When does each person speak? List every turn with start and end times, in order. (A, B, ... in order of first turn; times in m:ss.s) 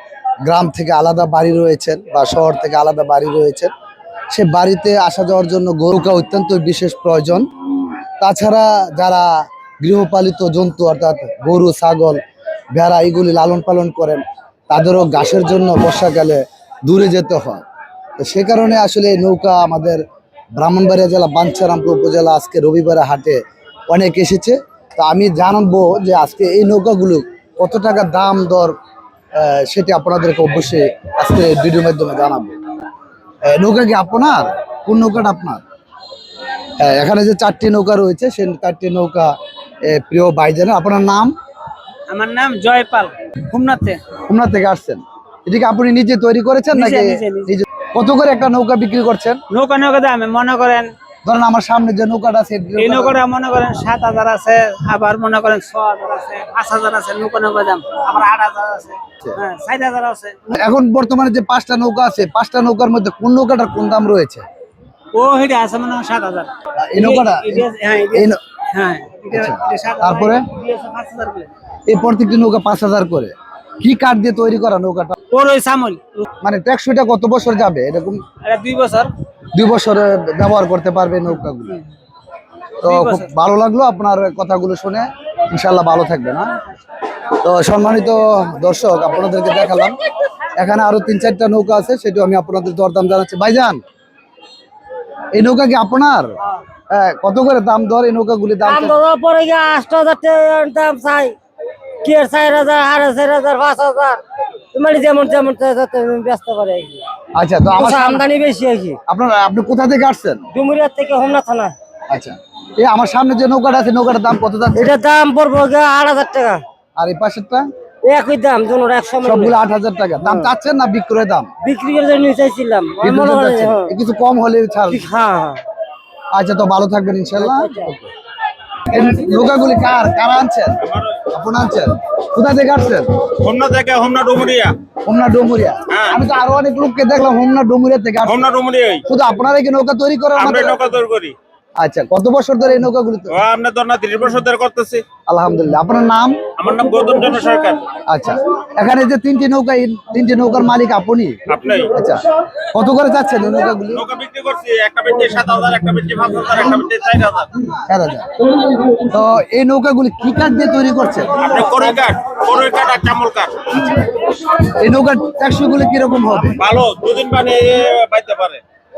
0:00.5-0:03.7 A
0:04.3-0:07.4 A
0:08.2-0:09.3 A
0:09.8-0:12.2 A
0:12.7-0:17.6 A
0:18.2-0:20.0 A
0:20.6-0:28.8 A
0:29.4-0:32.6 A
0:33.5-0:35.6 A
0:36.8-0:39.3 A
0:39.8-0:41.3 A
0:42.1-0:44.0 B
0:44.3-0:49.4 A
0:46.7-0:47.6 B
0:49.5-0:50.9 B
0:51.2-0:53.2 A
0:52.8-1:00.6 B
1:00.5-1:04.4 A
1:05.2-1:11.5 B
1:06.8-1:08.4 A
1:09.3-1:10.4 A
1:11.9-1:15.2 A
1:15.3-1:16.2 B
1:16.4-1:18.2 A
1:18.4-1:19.1 B
1:19.5-1:21.8 A
1:22.8-1:26.6 A
1:22.8-1:23.3 B
1:27.4-1:30.0 A
1:30.6-1:33.8 A
1:35.3-1:36.4 A
1:36.9-1:39.0 A
1:38.6-1:41.4 C
1:42.0-1:44.2 C
1:44.7-1:47.0 C
1:47.4-1:48.2 A
1:47.7-1:49.0 C
1:49.1-1:50.4 A
1:50.5-1:51.8 C
1:52.1-1:54.9 A
1:54.8-1:56.6 C
1:57.0-1:57.7 A
1:58.0-1:59.6 C
1:59.2-2:01.5 A
2:00.2-2:00.5 C
2:01.6-2:03.9 C
2:03.0-2:05.0 A
2:04.9-2:05.6 C
2:06.3-2:08.1 A
2:07.4-2:07.9 C
2:08.9-2:10.8 A
2:10.8-2:11.3 D
2:11.3-2:13.1 A
2:13.4-2:14.8 D
2:15.1-2:18.5 A
2:15.9-2:16.2 D
2:18.3-2:19.0 D
2:19.1-2:20.8 A
2:20.4-2:21.4 D
2:21.8-2:23.4 A
2:23.3-2:25.0 D
2:25.3-2:26.4 A
2:26.6-2:27.8 D
2:28.1-2:31.4 A
2:31.5-2:31.9 D
2:31.9-2:32.2 A
2:32.7-2:34.0 A
2:33.9-2:37.5 D
2:37.9-2:38.3 A
2:39.1-2:41.4 A
2:41.4-2:43.8 D
2:44.8-2:46.6 A
2:46.6-2:48.6 D